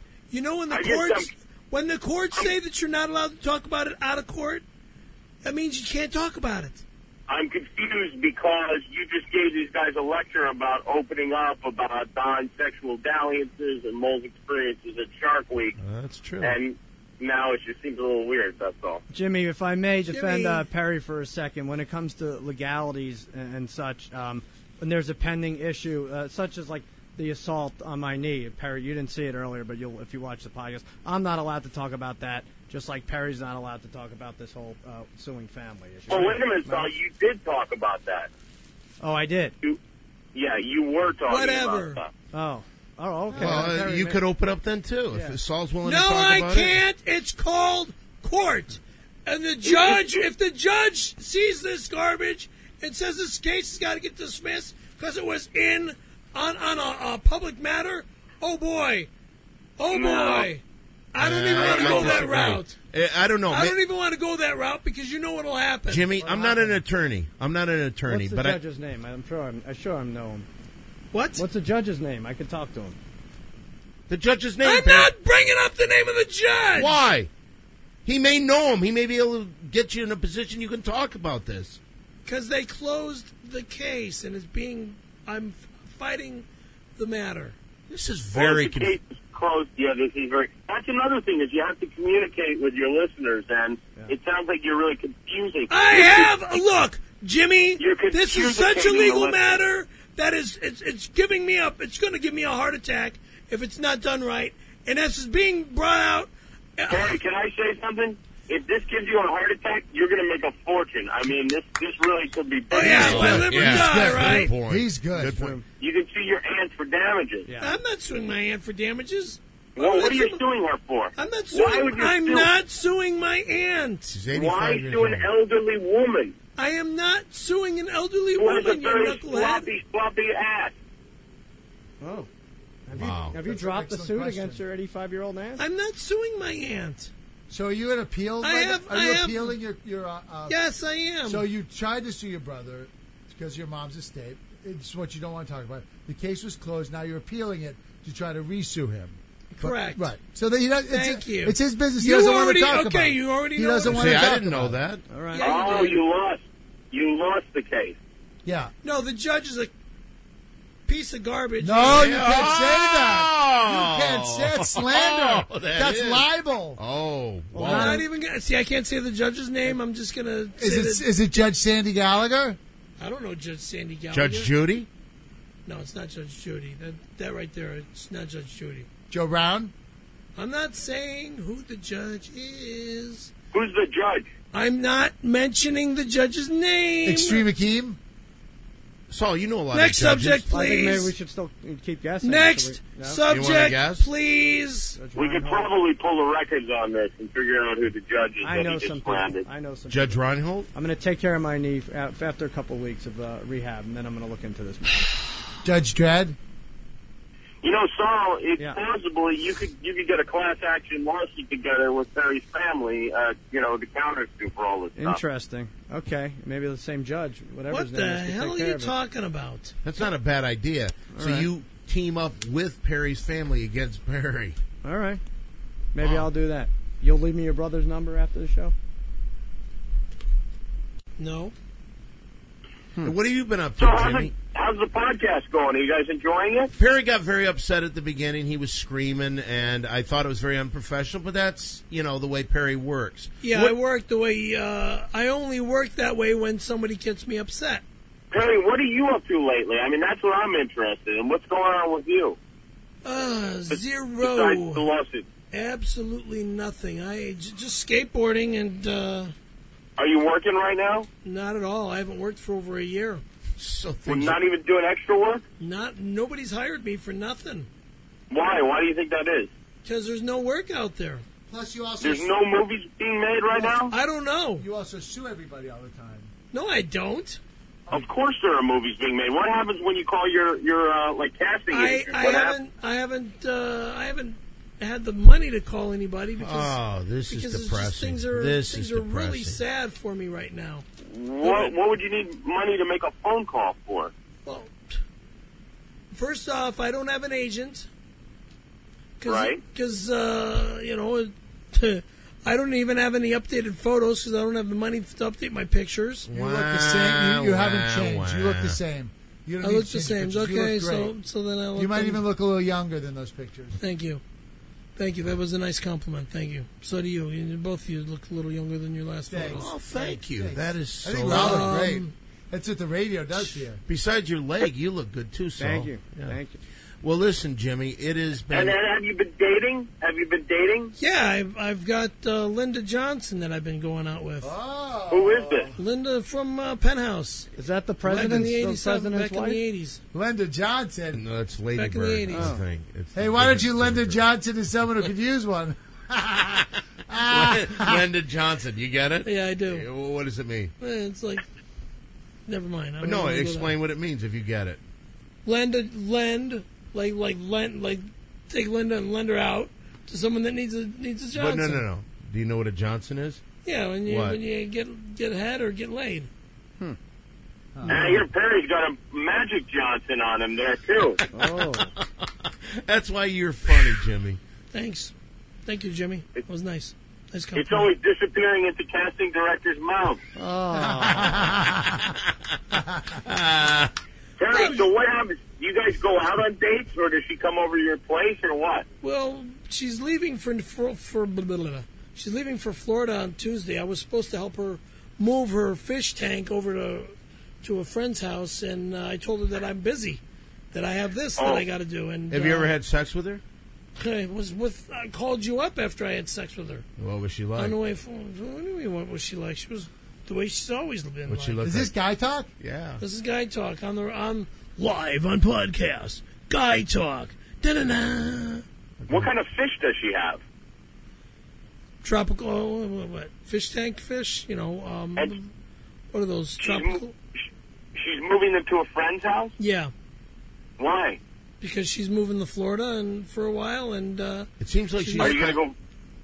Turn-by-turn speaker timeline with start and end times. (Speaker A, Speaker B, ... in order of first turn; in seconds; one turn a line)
Speaker A: 0.3-4.6
Speaker B: 0.7-1.3
Speaker A: 5.4-6.8
Speaker B: 7.3-15.8
Speaker C: 15.8-16.6
Speaker B: 16.4-19.0
Speaker D: 19.1-36.9
Speaker A: 20.1-20.6
Speaker B: 36.1-38.3
Speaker D: 39.0-39.5
Speaker B: 40.3-42.1
Speaker A: 41.3-42.0
Speaker D: 42.3-44.2
Speaker E: 43.3-43.7
Speaker C: 43.3-46.8
Speaker D: 45.1-45.4
Speaker A: 45.8-59.1
Speaker B: 49.6-50.2
Speaker A: 59.8-60.6
Speaker B: 59.9-60.5
Speaker A: 61.1-62.8
Speaker C: 61.2-63.8
Speaker B: 61.6-62.2
Speaker A: 63.5-66.1
Speaker C: 65.9-68.6
Speaker D: 66.2-66.8
Speaker D: 68.1-70.5
Speaker A: 71.1-71.4
Speaker D: 71.4-73.0
Speaker C: 74.1-75.1
Speaker A: 74.6-77.0
Speaker C: 76.7-77.3
Speaker C: 78.0-81.8
Speaker A: 82.2-86.5
Speaker A: 87.0-87.5
Speaker C: 87.9-89.0
Speaker B: 88.3-96.3
Speaker A: 95.7-107.2
Speaker B: 97.8-99.6
Speaker B: 106.9-113.4
Speaker A: 112.7-114.5
Speaker C: 112.8-115.6
Speaker E: 112.9-115.5
Speaker D: 115.3-115.6
Speaker B: 115.8-117.5
Speaker D: 117.4-117.8
Speaker A: 117.6-120.4
Speaker B: 119.8-122.5
Speaker A: 121.2-124.1
Speaker C: 124.1-125.3
Speaker B: 124.3-126.3
Speaker A: 126.6-129.7
Speaker B: 128.4-130.7
Speaker D: 132.0-132.3
Speaker D: 132.9-135.6
Speaker C: 132.9-133.4
Speaker E: 133.0-134.6
Speaker A: 135.6-137.1
Speaker E: 137.5-140.6
Speaker A: 138.4-139.6
Speaker A: 140.5-141.4
Speaker E: 141.2-154.8
Speaker A: 149.5-150.1
Speaker A: 150.9-154.3
Speaker C: 153.9-155.0
Speaker D: 155.1-155.5
Speaker A: 155.3-156.0
Speaker B: 155.4-157.9
Speaker E: 158.4-158.7
Speaker A: 158.8-159.7
Speaker A: 160.9-162.1
Speaker E: 161.6-166.8
Speaker C: 161.9-168.0
Speaker D: 167.5-168.0
Speaker A: 167.6-171.1
Speaker E: 170.6-172.6
Speaker A: 173.0-174.5
Speaker C: 174.1-174.9
Speaker A: 175.7-178.9
Speaker E: 179.1-179.7
Speaker A: 180.4-183.3
Speaker B: 183.5-184.3
Speaker A: 184.5-187.4
Speaker E: 187.0-188.0
Speaker C: 189.1-190.5
Speaker A: 189.7-191.1
Speaker D: 190.5-193.2
Speaker A: 192.2-195.0
Speaker C: 193.3-194.1
Speaker D: 194.9-195.7
Speaker B: 195.2-199.5
Speaker D: 198.4-200.2
Speaker C: 199.9-200.7
Speaker D: 200.7-205.1
Speaker E: 205.6-206.4
Speaker B: 207.6-215.2
Speaker D: 214.9-218.9
Speaker A: 217.7-219.8
Speaker C: 219.8-224.6
Speaker D: 221.1-221.5
Speaker D: 224.8-225.2
Speaker D: 225.9-228.7
Speaker C: 226.0-226.3
Speaker A: 231.2-231.5
Speaker C: 233.0-234.4
Speaker B: 233.8-236.7
Speaker C: 236.7-243.8
Speaker A: 243.4-247.8
Speaker B: 248.3-252.4
Speaker A: 253.0-254.9
Speaker B: 253.7-255.2
Speaker A: 255.5-259.3
Speaker B: 260.0-261.1
Speaker A: 261.2-263.2
Speaker C: 263.6-264.4
Speaker B: 264.1-265.4
Speaker A: 265.6-267.7
Speaker B: 268.3-269.5
Speaker A: 269.8-271.2
Speaker E: 271.5-272.3
Speaker B: 272.0-273.9
Speaker A: 273.9-274.6
Speaker E: 274.6-276.3
Speaker A: 276.5-277.4
Speaker B: 277.9-282.6
Speaker A: 281.7-290.9
Speaker C: 286.4-289.6
Speaker B: 291.0-294.1
Speaker A: 291.4-291.8
Speaker A: 294.4-295.0
Speaker A: 296.1-297.9
Speaker A: 299.2-306.3
Speaker B: 299.2-299.6
Speaker C: 306.3-308.8
Speaker E: 306.3-311.1
Speaker A: 309.6-312.2
Speaker E: 311.7-313.8
Speaker A: 313.8-314.2
Speaker A: 314.9-319.7
Speaker E: 319.3-323.8
Speaker C: 319.5-321.8
Speaker A: 321.2-322.1
Speaker C: 323.9-326.4
Speaker D: 325.6-326.6
Speaker C: 327.0-328.8
Speaker B: 328.5-330.9
Speaker A: 331.0-334.5
Speaker E: 334.4-335.8
Speaker B: 335.1-335.7
Speaker A: 335.8-337.5
Speaker D: 337.6-339.6
Speaker A: 338.0-340.0
Speaker E: 340.1-341.2
Speaker C: 341.1-344.2
Speaker A: 341.7-342.6
Speaker D: 342.3-342.6
Speaker E: 343.1-348.1
Speaker C: 347.2-350.7
Speaker A: 349.2-349.9
Speaker A: 350.8-351.4
Speaker A: 352.5-353.8
Speaker C: 353.0-354.8
Speaker A: 355.4-361.9
Speaker C: 361.3-363.4
Speaker A: 363.6-366.3
Speaker C: 364.1-364.4
Speaker E: 367.8-368.1
Speaker B: 367.9-371.2
Speaker C: 371.2-374.4
Speaker D: 371.3-371.9
Speaker A: 374.7-375.1
Speaker A: 375.6-377.9
Speaker B: 377.5-380.2
Speaker D: 380.4-381.5
Speaker E: 380.7-382.1
Speaker E: 382.7-383.0
Speaker C: 383.1-383.9
Speaker B: 384.4-388.9
Speaker A: 384.5-384.9
Speaker A: 389.0-400.2
Speaker A: 400.7-402.7
Speaker B: 401.4-401.6
Speaker C: 402.3-403.4
Speaker A: 404.0-406.9
Speaker C: 407.0-407.7
Speaker A: 407.6-411.6
Speaker C: 411.3-411.9
Speaker E: 411.6-412.5
Speaker C: 412.6-413.0
Speaker A: 413.0-418.6
Speaker C: 419.0-419.3
Speaker B: 419.1-420.4
Speaker A: 422.0-425.5
Speaker A: 426.1-427.1
Speaker B: 426.6-427.0
Speaker B: 427.9-429.5
Speaker A: 429.6-429.9
Speaker B: 430.8-431.2
Speaker A: 431.6-434.5
Speaker C: 434.6-435.6
Speaker A: 435.0-435.4
Speaker B: 435.2-435.7